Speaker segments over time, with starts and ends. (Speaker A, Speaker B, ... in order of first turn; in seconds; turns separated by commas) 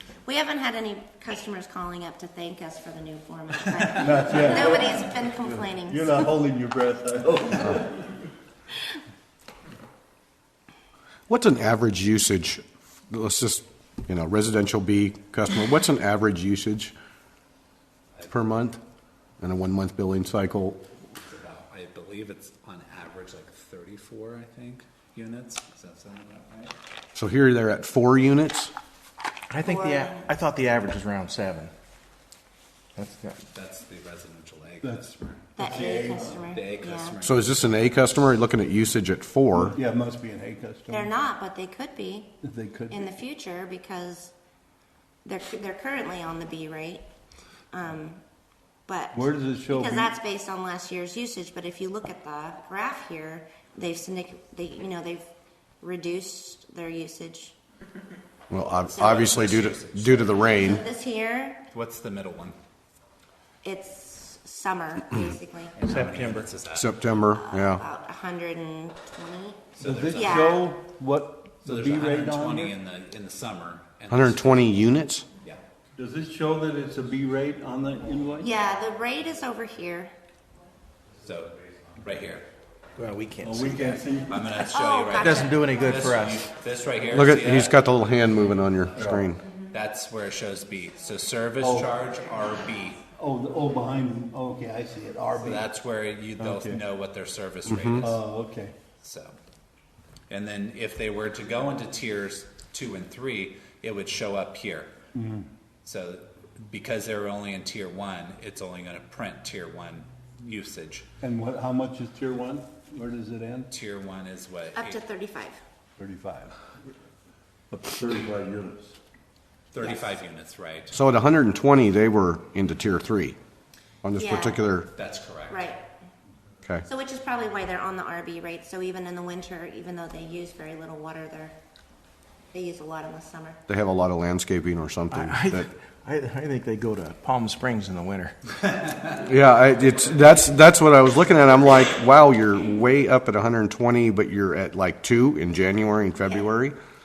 Speaker A: 0.2-6.2, Speaker B: 3.9-8.2, Speaker C: 11.3-16.9, Speaker C: 18.3-18.8, Speaker C: 19.4-20.8, Speaker D: 21.1-26.7, Speaker C: 27.1-28.7, Speaker E: 29.5-31.7, Speaker A: 29.6-30.3, Speaker E: 32.9-33.4, Speaker D: 33.5-35.6, Speaker B: 34.8-36.5, Speaker A: 35.5-37.2, Speaker D: 36.4-37.9, Speaker C: 37.2-39.8, Speaker B: 39.5-41.1, Speaker A: 40.9-42.3, Speaker B: 42.4-43.0, Speaker A: 42.9-44.3, Speaker A: 45.2-47.0, Speaker A: 47.7-48.2, Speaker A: 48.9-55.3, Speaker B: 49.1-50.1, Speaker A: 55.8-57.5, Speaker C: 58.5-60.8, Speaker D: 58.9-60.6, Speaker A: 58.9-59.2, Speaker A: 60.5-61.6, Speaker D: 61.7-62.5, Speaker A: 63.6-65.8, Speaker D: 65.7-66.9, Speaker E: 65.8-66.5, Speaker C: 66.7-67.8, Speaker A: 67.3-70.6, Speaker D: 69.7-70.7, Speaker B: 69.8-72.7, Speaker D: 71.6-74.8, Speaker C: 74.1-75.2, Speaker B: 76.0-78.5, Speaker A: 78.4-80.1, Speaker D: 81.1-82.5, Speaker E: 83.0-84.0, Speaker B: 83.4-84.4, Speaker D: 84.3-88.0, Speaker A: 84.7-85.8, Speaker E: 85.2-86.5, Speaker C: 87.1-89.4, Speaker D: 88.5-89.2, Speaker B: 89.0-89.3, Speaker D: 89.7-93.0, Speaker B: 91.6-91.9, Speaker B: 93.1-95.7, Speaker D: 95.4-98.2, Speaker B: 96.4-96.8, Speaker C: 97.7-98.0, Speaker B: 98.0-98.7, Speaker D: 99.0-99.3, Speaker D: 100.3-104.9, Speaker B: 105.1-105.5, Speaker D: 105.8-111.0, Speaker B: 111.2-113.7, Speaker D: 113.7-115.0, Speaker A: 114.7-115.6, Speaker B: 116.0-116.5, Speaker B: 117.7-119.0, Speaker D: 119.7-121.0, Speaker C: 120.9-123.4, Speaker C: 124.0-124.9, Speaker A: 124.2-124.6, Speaker D: 124.9-125.7, Speaker A: 125.5-125.8, Speaker A: 126.8-131.5, Speaker A: 132.5-133.6, Speaker C: 133.7-135.7, Speaker E: 135.1-138.5, Speaker C: 139.2-146.8